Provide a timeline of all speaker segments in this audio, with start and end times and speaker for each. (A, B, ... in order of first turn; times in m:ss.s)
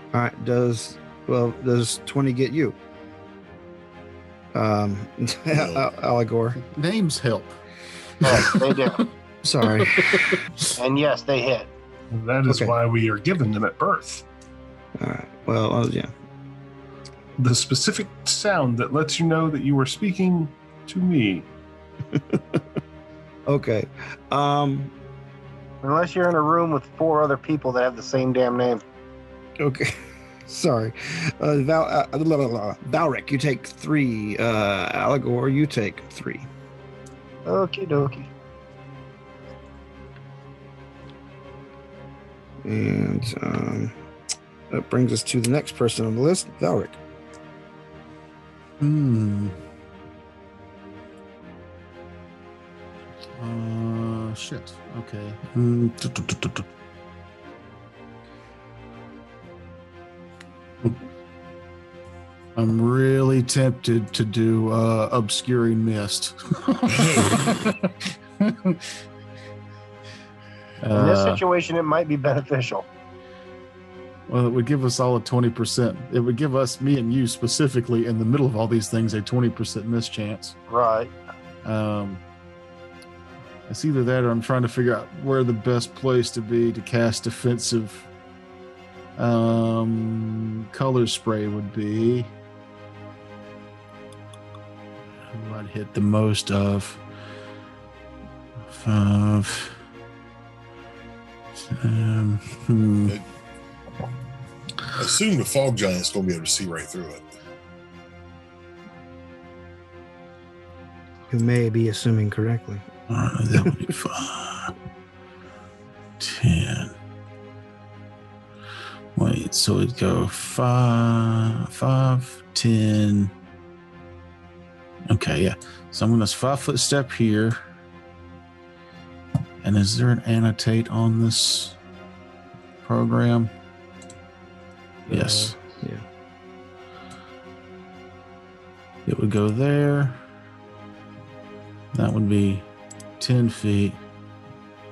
0:00.1-0:02.8 A
0:04.5-0:06.6 A
0:05.5-0:05.8 B
0:06.6-0:07.6 C
0:08.2-0:08.6 C
0:08.2-0:09.0 D
0:09.4-0:10.4 A
0:09.8-0:10.4 C
0:10.8-0:11.7 D
0:12.1-0:14.2 E
0:12.5-0:12.8 A
0:15.0-0:16.1 A
0:17.4-0:21.5 E
0:22.1-0:22.6 A
0:23.5-0:24.9 A
0:25.8-0:28.8 D
0:29.6-0:36.5 A
0:37.5-0:38.3 D
0:42.6-0:43.9 A
0:44.7-0:47.0 A
0:48.8-0:49.6 C
0:53.4-0:56.7 C
1:02.6-1:08.8 C
1:07.0-1:07.2 B
1:10.8-1:11.4 C
1:10.9-1:12.9 D
1:14.3-1:20.6 C
1:20.7-1:21.1 D
1:21.6-1:22.2 C
1:23.7-1:28.1 C
1:29.2-1:32.3 C
1:35.3-1:37.0 C
1:38.7-1:39.8 C
1:41.7-1:43.2 C
1:45.0-1:47.3 B
1:51.3-1:52.9 A
1:53.1-1:54.7 C
1:56.2-1:57.0 C
1:59.2-2:03.3 C
2:05.1-2:07.6 C
2:09.6-2:11.8 C
2:12.8-2:13.5 C
2:15.1-2:16.0 A
2:15.1-2:15.6 C
2:19.1-2:20.2 C
2:21.9-2:22.7 C
2:23.2-2:24.0 C